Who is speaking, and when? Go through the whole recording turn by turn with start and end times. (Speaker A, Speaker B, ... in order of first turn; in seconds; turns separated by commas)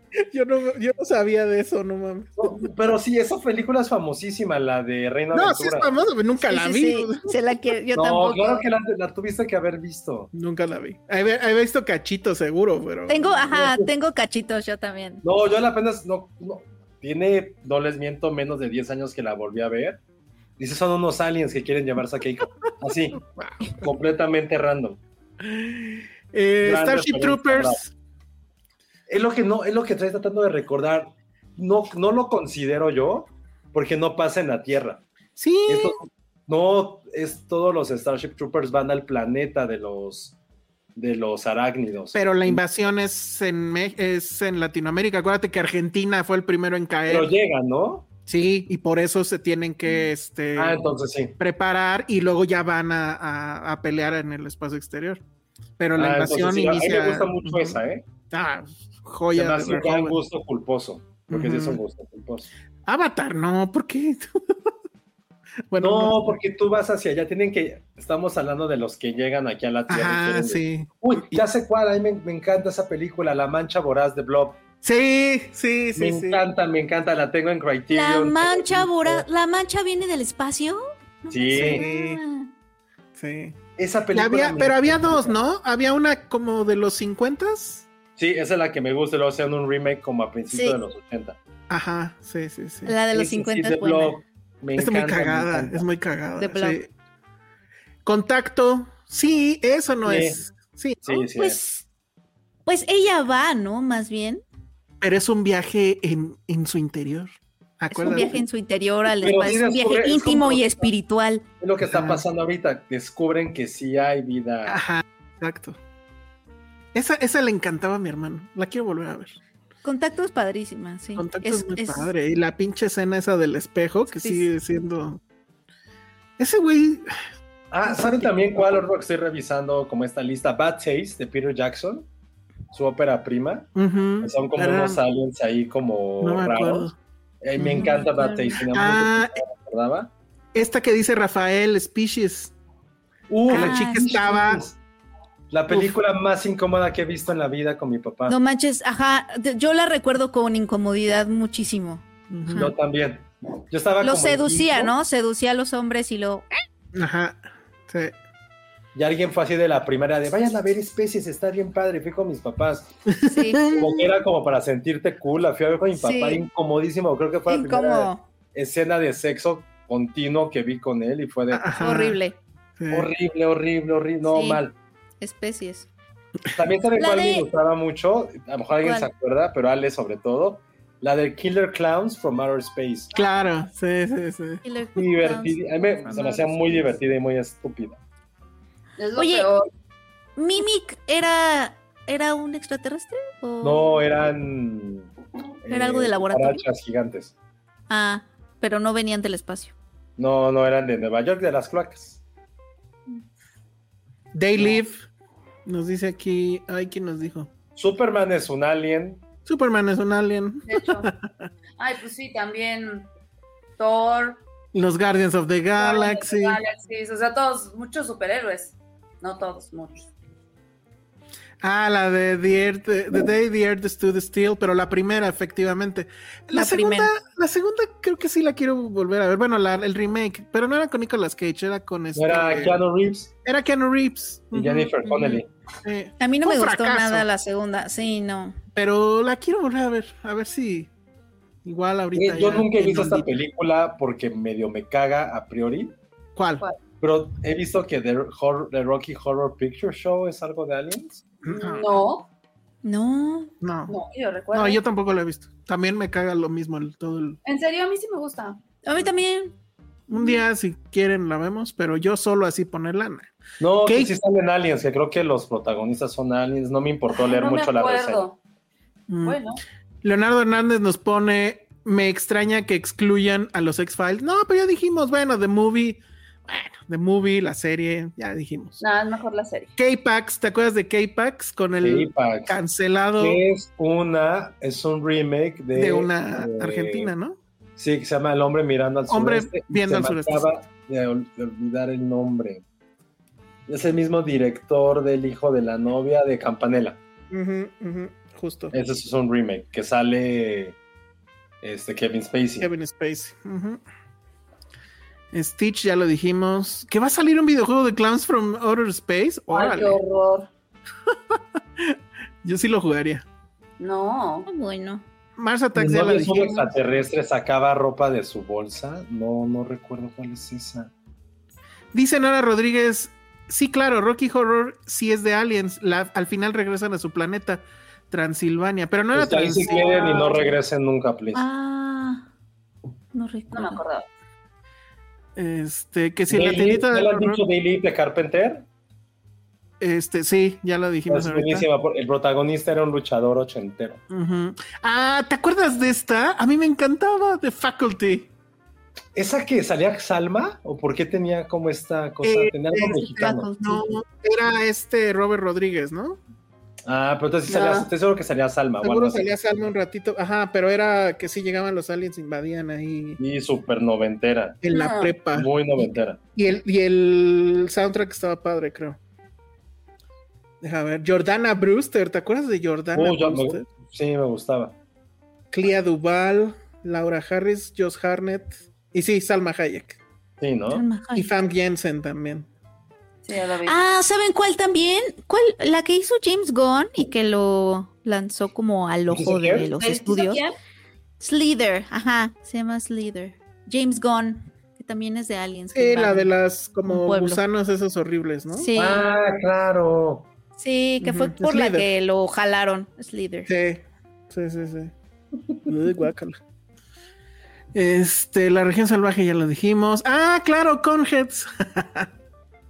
Speaker A: 0.2-2.7, Speaker B: 2.4-5.9, Speaker A: 5.3-7.3, Speaker C: 6.5-8.7, Speaker B: 8.0-10.3, Speaker A: 10.3-13.4, Speaker C: 13.1-15.2, Speaker B: 13.5-13.9, Speaker B: 15.2-20.0, Speaker B: 20.6-23.2, Speaker A: 23.4-23.9, Speaker B: 23.8-25.0, Speaker A: 25.4-27.9, Speaker B: 26.6-27.8, Speaker B: 29.1-35.0, Speaker A: 35.4-36.0, Speaker B: 35.7-40.4, Speaker B: 41.0-42.6, Speaker A: 42.1-47.3, Speaker B: 47.1-48.1, Speaker A: 48.3-50.8, Speaker B: 50.6-51.4, Speaker A: 51.4-55.2, Speaker A: 55.8-60.2, Speaker B: 56.0-58.0, Speaker B: 59.3-62.5, Speaker A: 61.3-61.8, Speaker A: 62.9-64.6, Speaker A: 65.7-66.4, Speaker B: 65.8-74.6, Speaker A: 69.9-71.4, Speaker A: 74.8-76.4, Speaker B: 76.0-79.3, Speaker C: 77.9-82.5, Speaker B: 81.3-81.8, Speaker A: 81.5-82.2, Speaker A: 83.2-83.6, Speaker B: 83.8-85.3, Speaker A: 84.1-87.8, Speaker B: 88.2-91.4, Speaker C: 90.5-90.8, Speaker A: 91.7-93.0, Speaker C: 92.9-94.2, Speaker B: 93.1-95.8, Speaker A: 94.8-96.9, Speaker C: 96.4-96.8, Speaker A: 98.0-101.2, Speaker B: 100.0-100.4, Speaker B: 101.0-101.6, Speaker C: 101.4-101.8, Speaker C: 102.7-104.4, Speaker A: 105.0-108.4, Speaker C: 107.9-111.5, Speaker B: 109.2-110.9, Speaker B: 111.6-114.8, Speaker A: 111.9-112.2, Speaker A: 114.7-115.8, Speaker A: 116.9-119.3, Speaker C: 119.8-122.1, Speaker A: 121.2-125.2, Speaker C: 124.2-124.5, Speaker A: 126.4-127.3, Speaker B: 127.7-132.1, Speaker A: 127.9-128.3, Speaker B: 132.7-133.7, Speaker A: 133.8-135.0, Speaker B: 134.2-136.9, Speaker A: 136.2-136.9, Speaker B: 137.4-140.1, Speaker A: 137.6-138.1, Speaker C: 137.8-138.6, Speaker A: 138.7-139.4, Speaker A: 140.6-142.6, Speaker B: 143.3-144.8, Speaker A: 143.5-144.6, Speaker C: 143.5-144.0, Speaker B: 145.5-148.4, Speaker A: 145.7-146.0, Speaker C: 148.3-152.0, Speaker A: 152.3-152.7, Speaker B: 152.5-154.9, Speaker C: 154.0-156.5, Speaker A: 156.9-158.2, Speaker B: 158.9-162.9, Speaker A: 163.1-164.1, Speaker C: 163.3-163.8, Speaker B: 163.8-171.8, Speaker C: 166.0-166.4, Speaker C: 167.5-168.2, Speaker A: 171.5-172.2, Speaker C: 171.8-172.4, Speaker A: 172.8-173.1, Speaker B: 172.9-174.7, Speaker C: 174.3-174.6, Speaker C: 175.2-175.9, Speaker B: 176.6-183.1, Speaker C: 177.0-177.5, Speaker C: 178.8-179.1, Speaker A: 183.1-184.6, Speaker C: 184.6-186.9, Speaker B: 185.0-188.0, Speaker D: 189.0-189.7, Speaker C: 189.2-189.5, Speaker C: 190.4-194.0, Speaker B: 193.6-195.1, Speaker B: 195.6-197.3, Speaker C: 195.7-196.6, Speaker C: 197.9-199.7, Speaker B: 200.2-202.2, Speaker A: 204.3-205.1, Speaker A: 205.7-207.5, Speaker B: 207.8-209.2, Speaker A: 209.4-211.1, Speaker D: 210.7-211.1, Speaker D: 211.8-213.1, Speaker D: 213.8-214.4, Speaker A: 214.7-216.6, Speaker D: 215.8-220.1, Speaker A: 221.6-232.8, Speaker C: 226.5-227.1, Speaker B: 232.2-233.3, Speaker A: 233.4-237.3, Speaker B: 234.5-235.5, Speaker C: 236.2-238.6, Speaker A: 238.8-240.9, Speaker A: 241.6-243.3, Speaker B: 242.2-245.9, Speaker A: 246.4-246.6, Speaker B: 247.0-251.2, Speaker A: 251.4-251.9, Speaker D: 251.6-252.3, Speaker C: 252.8-253.5, Speaker A: 253.6-253.9, Speaker D: 253.9-254.8, Speaker A: 254.5-257.4, Speaker D: 257.4-258.6, Speaker C: 258.8-259.5, Speaker A: 260.1-263.3, Speaker B: 263.6-268.2, Speaker A: 263.8-264.1, Speaker D: 267.1-268.4, Speaker A: 269.1-269.4, Speaker D: 269.2-269.6, Speaker A: 270.0-278.8, Speaker D: 278.8-279.7, Speaker A: 279.8-283.4, Speaker B: 281.8-282.6, Speaker B: 283.2-287.1, Speaker A: 285.7-287.4, Speaker B: 287.8-292.6, Speaker A: 289.1-290.5, Speaker B: 293.7-297.0, Speaker A: 297.3-298.7, Speaker B: 298.7-300.8, Speaker B: 301.6-302.7, Speaker A: 302.6-303.8, Speaker A: 305.3-310.0, Speaker D: 309.5-310.5, Speaker A: 311.1-313.2, Speaker D: 313.8-314.5, Speaker C: 314.5-315.0, Speaker A: 315.4-316.7, Speaker B: 315.8-320.9, Speaker A: 321.9-330.1, Speaker B: 329.1-331.4, Speaker D: 329.7-330.5, Speaker C: 331.3-332.3, Speaker C: 333.1-333.8, Speaker D: 333.5-334.1, Speaker A: 335.4-337.4, Speaker B: 336.3-338.7, Speaker A: 339.8-341.7, Speaker B: 341.1-344.0, Speaker A: 344.1-348.3, Speaker B: 349.1-353.8, Speaker A: 352.2-356.2, Speaker C: 352.9-353.7, Speaker B: 356.9-359.3, Speaker D: 357.5-357.9, Speaker A: 358.8-363.2, Speaker B: 363.2-364.6, Speaker A: 364.6-369.0, Speaker D: 364.7-365.1, Speaker B: 365.3-366.2, Speaker A: 370.6-373.6, Speaker B: 372.9-374.7, Speaker A: 375.5-380.0, Speaker B: 380.4-380.8, Speaker C: 380.7-381.3, Speaker A: 381.1-382.5, Speaker D: 383.2-383.8, Speaker C: 383.6-390.4, Speaker B: 389.1-389.7, Speaker D: 389.8-390.5, Speaker C: 391.2-396.3, Speaker A: 395.8-398.7, Speaker C: 396.9-397.4, Speaker C: 398.5-399.1, Speaker B: 398.8-400.3, Speaker C: 400.6-403.5, Speaker A: 401.0-401.9, Speaker A: 403.5-404.9, Speaker A: 405.7-406.4, Speaker A: 407.7-412.1